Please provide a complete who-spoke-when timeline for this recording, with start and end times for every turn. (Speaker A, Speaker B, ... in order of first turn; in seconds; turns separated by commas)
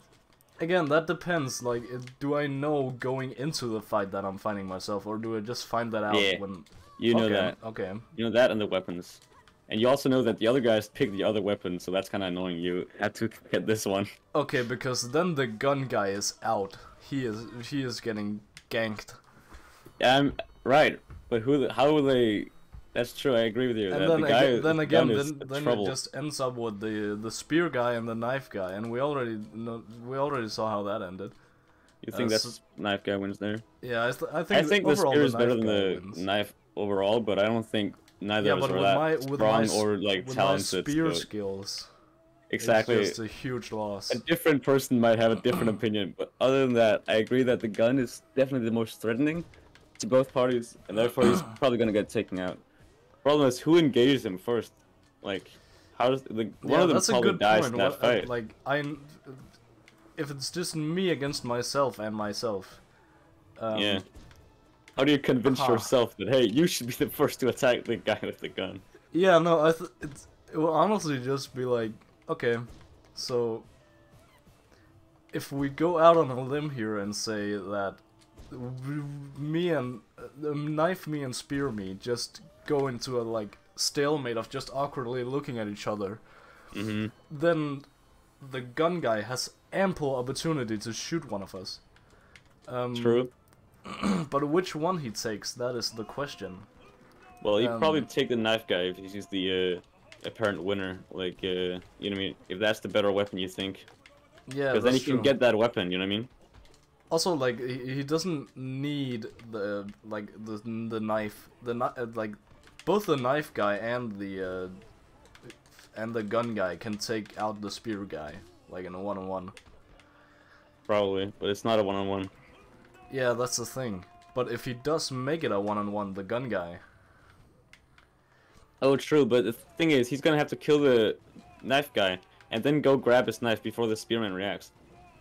Speaker A: 0.6-8.1, Speaker B: 6.1-6.4, Speaker B: 7.0-7.6, Speaker B: 8.1-14.1, Speaker A: 14.3-19.2, Speaker B: 20.0-25.9, Speaker A: 23.9-31.4, Speaker B: 32.0-33.6, Speaker A: 32.1-32.6, Speaker A: 33.8-36.2, Speaker B: 34.5-41.2, Speaker A: 38.4-41.9, Speaker B: 42.5-43.2, Speaker A: 42.6-44.2, Speaker B: 44.1-49.5, Speaker B: 50.0-52.6, Speaker B: 53.2-58.3, Speaker A: 56.6-59.5, Speaker A: 60.2-62.8, Speaker A: 63.6-64.0, Speaker B: 63.7-64.0, Speaker B: 65.0-68.8, Speaker A: 65.4-65.9, Speaker A: 69.1-73.7, Speaker A: 75.3-86.2, Speaker B: 86.7-87.1, Speaker A: 87.3-87.9, Speaker A: 88.4-91.8, Speaker A: 92.7-93.3, Speaker B: 92.9-93.3, Speaker A: 93.9-96.7, Speaker B: 97.4-103.9, Speaker A: 97.6-98.1, Speaker A: 104.5-105.3, Speaker B: 104.7-106.3, Speaker A: 107.1-114.8, Speaker A: 115.5-119.5, Speaker B: 120.9-122.3, Speaker A: 123.1-126.8, Speaker B: 128.8-134.7